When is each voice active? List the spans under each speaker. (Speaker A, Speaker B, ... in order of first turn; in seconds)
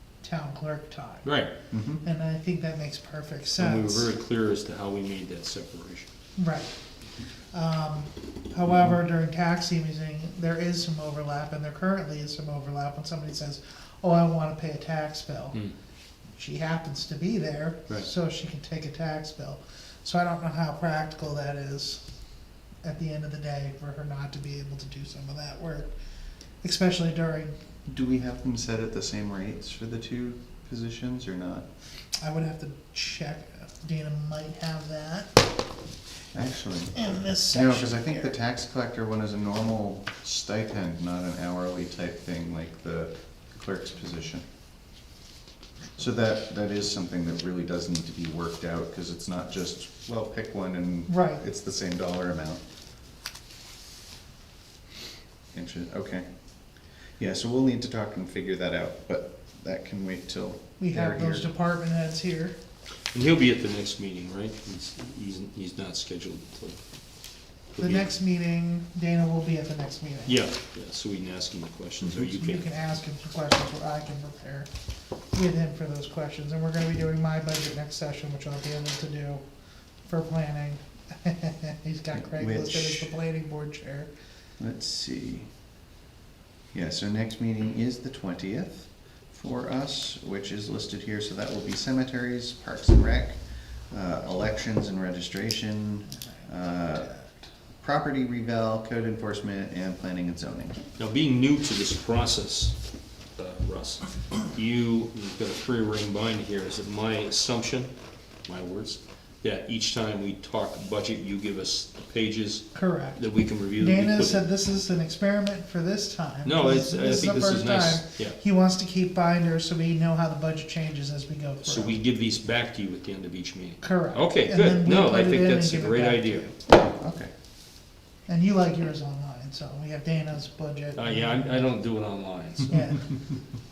Speaker A: 0.2-1.3, 2.0-4.1, 6.3-6.7, 7.5-15.6, 16.4-22.0, 22.8-25.9, 26.6-27.5, 32.2-35.4, 36.9-38.4, 51.1-51.4, 60.8-62.5, 67.8-70.4, 72.2-74.7, 75.3-79.4, 80.0-84.1, 112.7-122.0, 123.8-126.5, 128.3-131.7, 132.7-133.1
Speaker B: 1.2-1.5, 3.6-6.1, 63.1-66.8, 67.7-68.1, 70.2-72.7, 101.0-102.8, 103.4-107.9, 108.4-114.4, 116.4-118.4, 121.6-126.5, 130.9-133.0
Speaker C: 1.7-2.0, 27.9-31.6, 36.3-44.5, 46.0-52.6, 55.5-56.2, 57.2-61.5, 82.1-83.1, 84.6-85.5, 86.7-93.4, 93.9-100.8, 126.7-127.3